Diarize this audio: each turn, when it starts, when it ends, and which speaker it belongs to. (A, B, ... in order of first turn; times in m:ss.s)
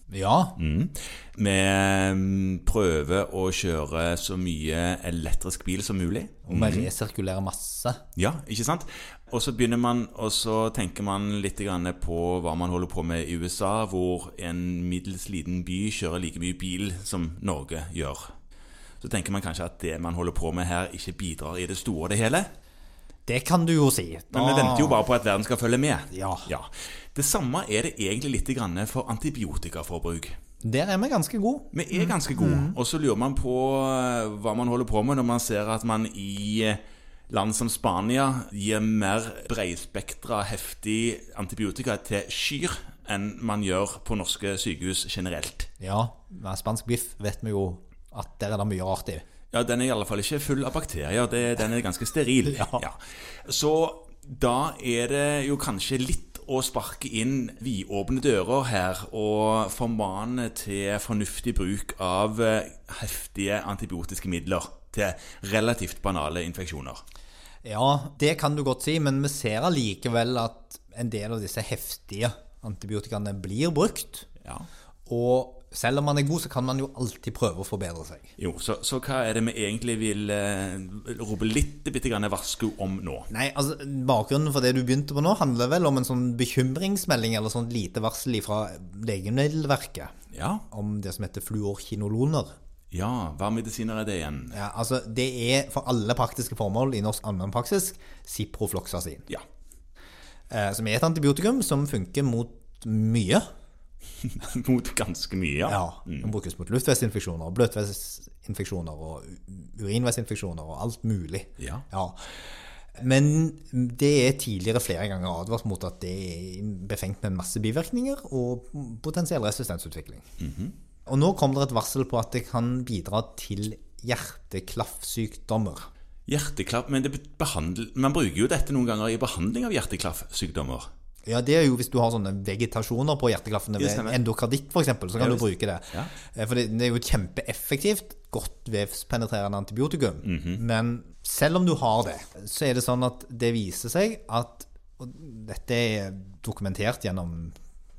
0:00.1-0:00.6 A
0:00.6-0:06.9 B
0:06.5-0:08.0 A
0:08.2-0:18.3 B
0:19.0-0:22.5 B
0:23.3-0:25.0 A
0:24.3-0:30.3 B
0:26.1-0:26.5 A
0:30.6-0:32.8 A
0:31.7-0:45.7 B
0:45.8-0:49.2 A
0:49.5-1:07.0 B
0:52.5-0:52.8 A
1:07.6-1:14.3 A
1:15.1-1:18.3 A
1:18.4-1:23.3 B
1:23.3-1:30.1 A
1:30.3-1:30.6 B
1:30.7-1:32.5 A
1:32.9-1:34.6 B
1:34.5-1:39.3 A
1:40.5-1:43.4 A
1:44.3-1:46.3 B
1:45.7-1:52.2 A
1:51.6-1:51.8 B
1:53.0-2:00.2 A
2:00.4-2:00.7 B
2:01.1-2:05.9 A
2:06.3-2:10.9 B
2:11.2-2:27.6 A
2:13.8-2:14.2 B
2:15.2-2:16.1 B
2:20.2-2:20.6 B